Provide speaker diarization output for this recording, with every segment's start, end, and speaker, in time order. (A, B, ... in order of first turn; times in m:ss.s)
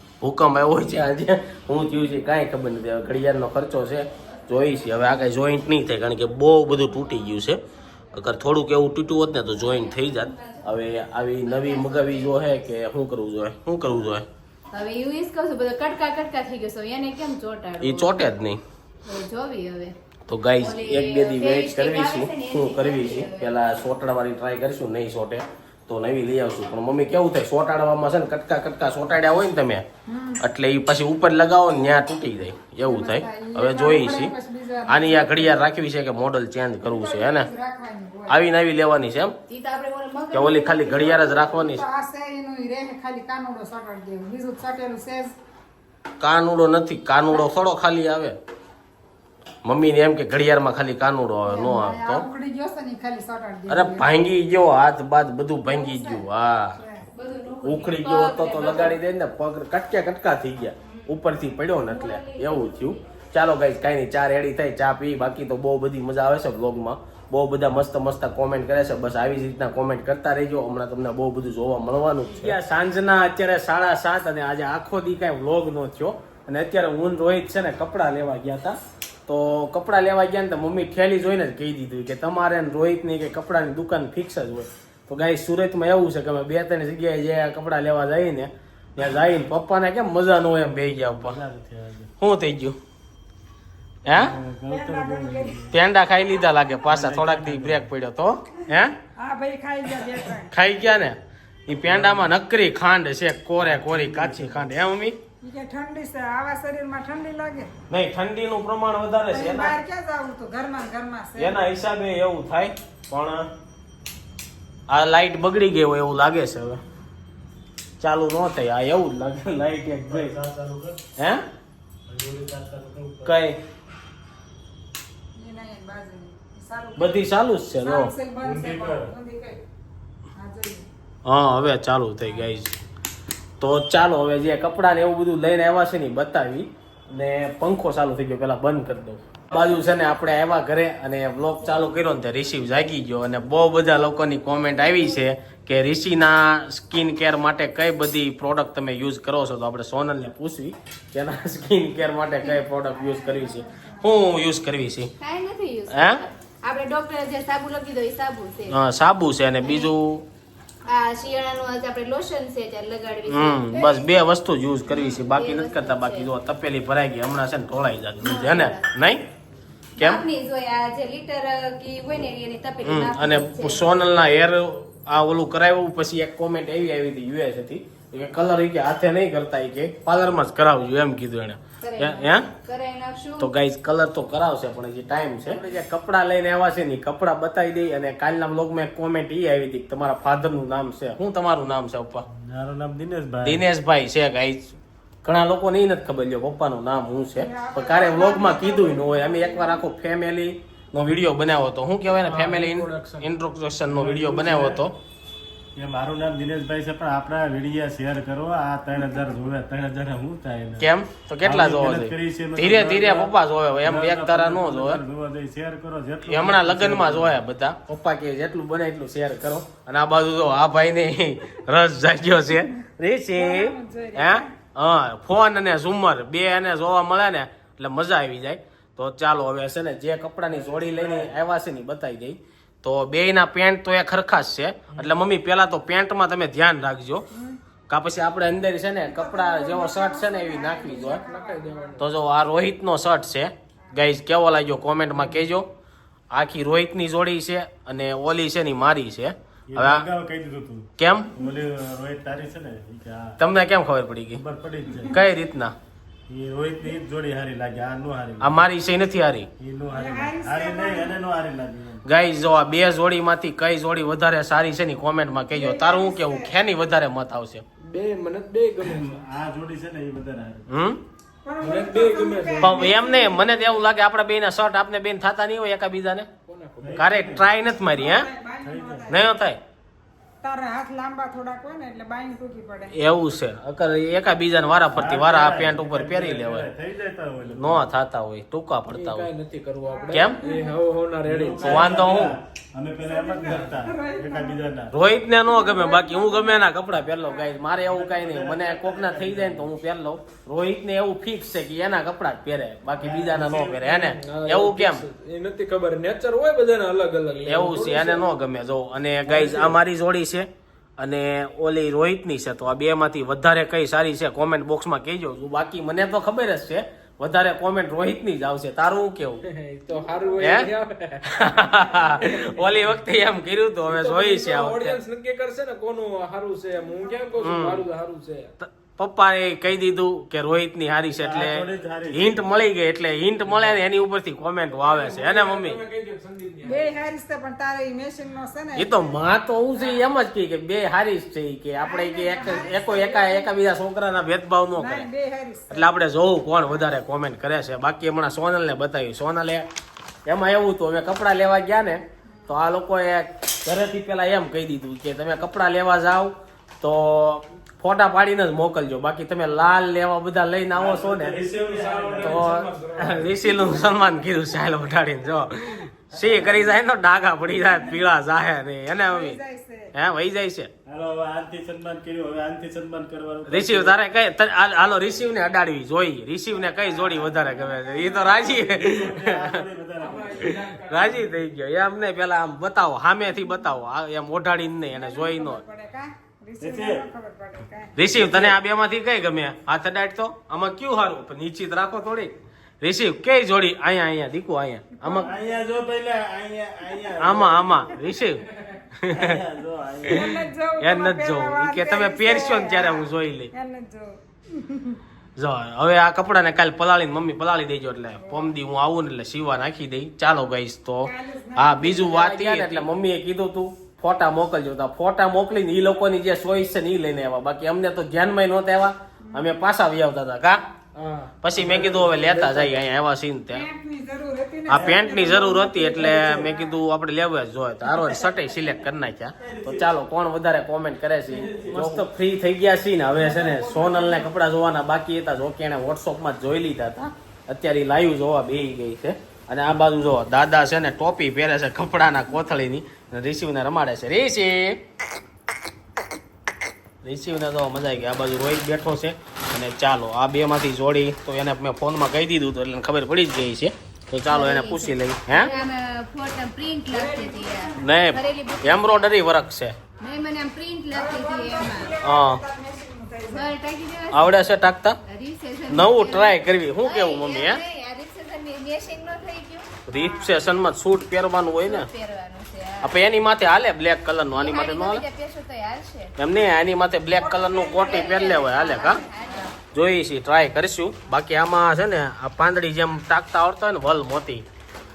0:00.2-0:07.6 A
0:08.1-0:14.3 A
0:10.2-0:10.6 B
0:11.5-0:12.6 B
0:14.7-0:18.3 B
0:17.8-0:18.6 A
0:19.1-0:20.0 B
0:20.3-0:29.8 A
0:20.6-0:23.8 B
0:30.1-0:30.4 C
0:30.4-0:34.3 A
0:32.8-0:35.6 C
0:34.9-0:37.5 A
0:36.8-0:38.4 C
0:38.3-0:39.4 A
0:39.5-0:41.6 B
0:40.3-0:41.8 A
0:41.5-0:45.3 C
0:46.2-0:48.4 A
0:49.6-0:52.3 A
0:51.5-0:54.1 C
0:53.7-0:56.8 A
0:55.6-0:56.2 C
0:56.8-0:57.1 C
0:57.1-0:59.0 B
0:57.6-1:31.4 A
1:01.8-1:03.0 B
1:31.2-1:32.1 D
1:32.2-1:32.8 A
1:34.0-1:34.3 A
1:34.1-1:35.7 D
1:34.7-1:35.7 C
1:35.7-1:39.0 A
1:36.9-1:37.9 D
1:39.2-1:40.5 C
1:40.4-1:45.2 A
1:41.9-1:42.3 D
1:43.6-1:44.8 D
1:45.4-1:47.7 C
1:47.9-1:49.8 A
1:49.3-1:51.6 C
1:51.4-1:53.5 A
1:54.9-1:56.8 A
1:58.0-2:00.4 A
2:00.0-2:01.0 D
2:02.1-2:03.4 D
2:03.2-2:03.6 A
2:05.4-2:09.6 C
2:07.0-2:08.1 A
2:08.4-2:09.1 D
2:10.4-2:10.9 C
2:11.3-2:12.7 A
2:13.6-2:35.1 A
2:32.9-2:34.2 C
2:35.2-2:38.8 B
2:35.9-2:36.2 A
2:38.7-2:40.2 A
2:39.6-2:39.9 B
2:40.9-2:44.0 B
2:43.3-2:49.2 A
2:44.9-2:46.3 B
2:48.2-2:48.9 B
2:50.0-2:50.2 A
2:50.0-2:53.9 B
2:52.8-3:02.5 A
3:01.8-3:03.5 B
3:03.4-3:12.2 A
3:12.3-3:13.6 D
3:13.4-3:25.0 A
3:17.4-3:19.8 C
3:22.2-3:23.3 E
3:23.9-3:24.8 D
3:25.8-3:30.9 D
3:30.8-3:35.0 A
3:31.4-3:37.4 D
3:36.3-3:57.3 A
3:43.4-3:44.5 C
3:50.6-3:51.1 D
3:54.9-3:55.2 E
3:57.9-4:01.2 A
3:59.0-4:02.0 C
4:01.0-4:02.1 E
4:02.0-4:05.7 A
4:06.3-4:10.0 A
4:09.7-4:13.4 D
4:11.0-4:11.3 A
4:13.4-4:14.4 A
4:14.4-4:15.2 D
4:15.1-4:15.7 A
4:16.3-4:18.6 D
4:18.4-4:19.5 A
4:19.6-4:22.0 D
4:19.9-4:21.2 C
4:22.1-4:27.6 A
4:25.5-4:26.5 C
4:27.8-4:29.2 E
4:28.8-4:30.7 D
4:30.7-4:31.0 A
4:31.4-4:33.8 C
4:31.6-4:32.9 E
4:32.6-4:36.3 A
4:36.5-4:37.4 E
4:36.8-4:37.5 D
4:37.0-4:38.3 A
4:37.8-4:39.3 C
4:38.6-4:39.2 D
4:39.1-4:39.6 A
4:40.4-4:43.0 C
4:42.9-4:46.7 A
4:44.9-4:47.8 D
4:47.5-4:49.3 A
4:48.9-4:51.9 E
4:49.8-4:50.8 C
4:50.1-4:50.4 A
4:51.3-4:54.9 D
4:51.6-4:52.4 A
4:53.0-4:54.6 C
4:54.9-5:05.0 A
4:55.5-4:56.7 C
4:57.2-4:57.5 C
4:57.8-4:59.7 D
5:02.9-5:04.1 D
5:03.9-5:08.3 E
5:07.4-5:10.5 A
5:09.3-5:09.8 E
5:11.0-5:19.4 A
5:19.4-5:22.8 E
5:19.9-5:20.6 C
5:20.4-5:20.7 A
5:21.2-5:25.0 A
5:23.9-5:28.5 E
5:27.4-5:27.8 A
5:28.6-5:35.8 A
5:31.2-5:32.4 D
5:34.8-5:37.0 E
5:36.6-5:39.2 C
5:38.8-5:45.1 A
5:39.8-5:40.0 C
5:41.8-5:43.5 C
5:44.8-5:45.9 C
5:45.7-5:49.7 A
5:50.3-6:01.4 A
6:00.7-6:02.5 D
6:01.4-6:03.7 E
6:02.2-6:09.4 A
6:06.2-6:06.6 D
6:09.0-6:09.9 C
6:09.9-6:10.7 A
6:10.9-6:14.0 D
6:13.5-6:19.6 A
6:17.3-6:18.5 C
6:18.3-6:20.6 D
6:20.0-6:21.4 E
6:20.3-6:25.6 A
6:24.9-6:28.0 C
6:26.6-6:27.0 D
6:28.0-6:35.3 A
6:28.0-6:28.6 D
6:35.0-6:35.4 C
6:35.2-6:38.0 D
6:37.2-6:38.4 A
6:39.0-6:39.4 A
6:39.1-6:40.3 D
6:40.1-6:45.0 C
6:40.8-6:43.5 A
6:45.4-7:00.6 A
6:48.2-6:48.5 C
6:51.0-6:52.4 C
6:52.4-6:52.7 B
7:01.0-7:02.9 E
7:01.4-7:03.7 A
7:03.5-7:06.8 C
7:04.7-7:24.8 A
7:06.1-7:06.5 D
7:08.5-7:08.8 D
7:09.4-7:09.9 D
7:11.3-7:12.1 D
7:13.2-7:14.3 C
7:27.0-7:35.5 A
7:34.3-7:39.2 B
7:36.9-7:37.9 C
7:37.8-7:39.8 A
7:40.0-7:41.9 B
7:40.9-7:43.6 C
7:42.0-7:42.4 A
7:43.3-7:49.7 B
7:44.1-7:45.0 A
7:45.7-7:47.6 A
7:49.9-7:51.9 A
7:49.9-7:50.4 C
7:51.6-7:53.0 B
7:52.8-7:55.0 A
7:54.3-7:56.1 B
7:56.2-7:59.0 A
7:57.2-7:59.4 C
7:57.7-7:59.6 B
7:59.7-8:04.4 A